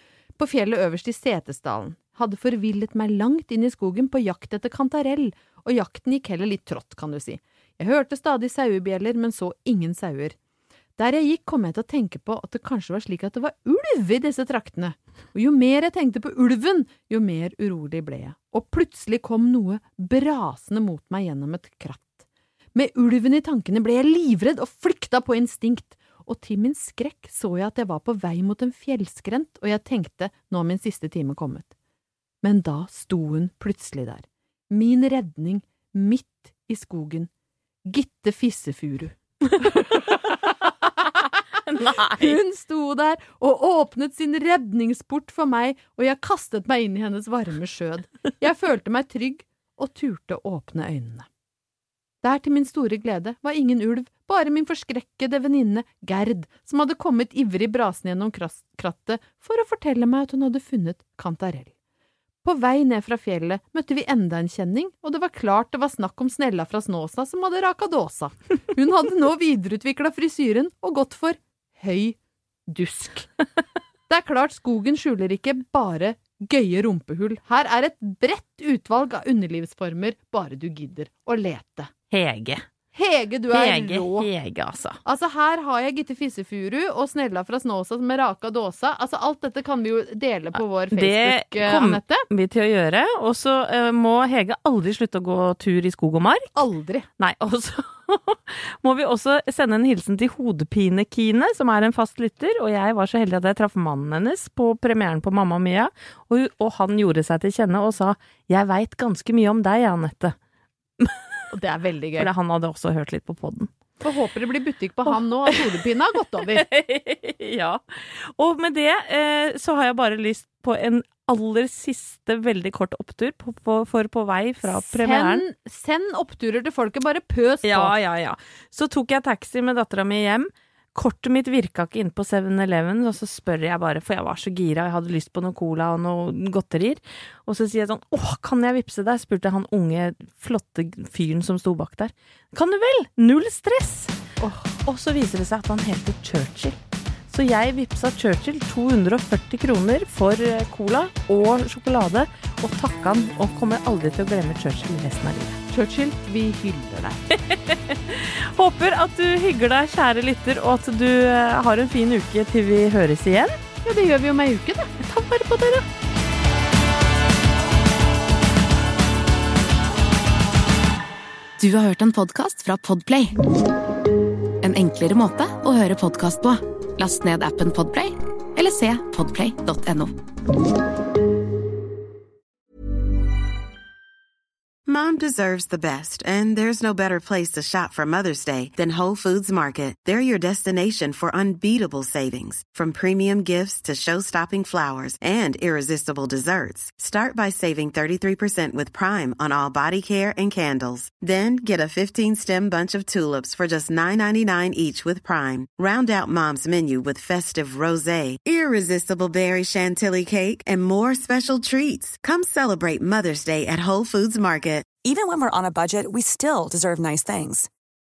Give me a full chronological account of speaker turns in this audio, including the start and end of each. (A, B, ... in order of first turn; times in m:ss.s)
0:00.4-0:10.4 A
0:11.0-0:22.2 A
0:22.8-0:31.7 A
0:32.4-0:37.3 A
0:37.9-0:40.4 A
0:41.7-0:42.4 B
0:42.2-0:51.3 A
0:52.2-1:01.7 A
1:02.4-1:12.2 A
1:12.7-1:13.3 A
1:14.1-1:21.9 A
1:22.1-1:22.7 B
1:22.9-1:24.3 A
1:23.5-1:25.0 B
1:25.1-1:32.3 A
1:30.9-1:36.5 B
1:36.6-1:37.1 A
1:37.2-1:50.4 B
1:51.0-1:51.4 B
1:51.5-1:52.3 A
1:52.2-1:53.7 B
1:54.0-1:56.7 A
1:56.5-2:05.5 B
2:04.6-2:07.9 A
2:07.6-2:24.2 B
2:24.4-2:24.7 A
2:24.8-2:35.6 B
2:35.7-2:37.2 A
2:37.3-2:43.6 B
2:43.8-2:45.0 A
2:45.0-2:45.9 B
2:51.6-2:53.4 C
2:54.6-3:00.1 C
3:04.9-3:34.9 D
3:35.0-3:37.7 E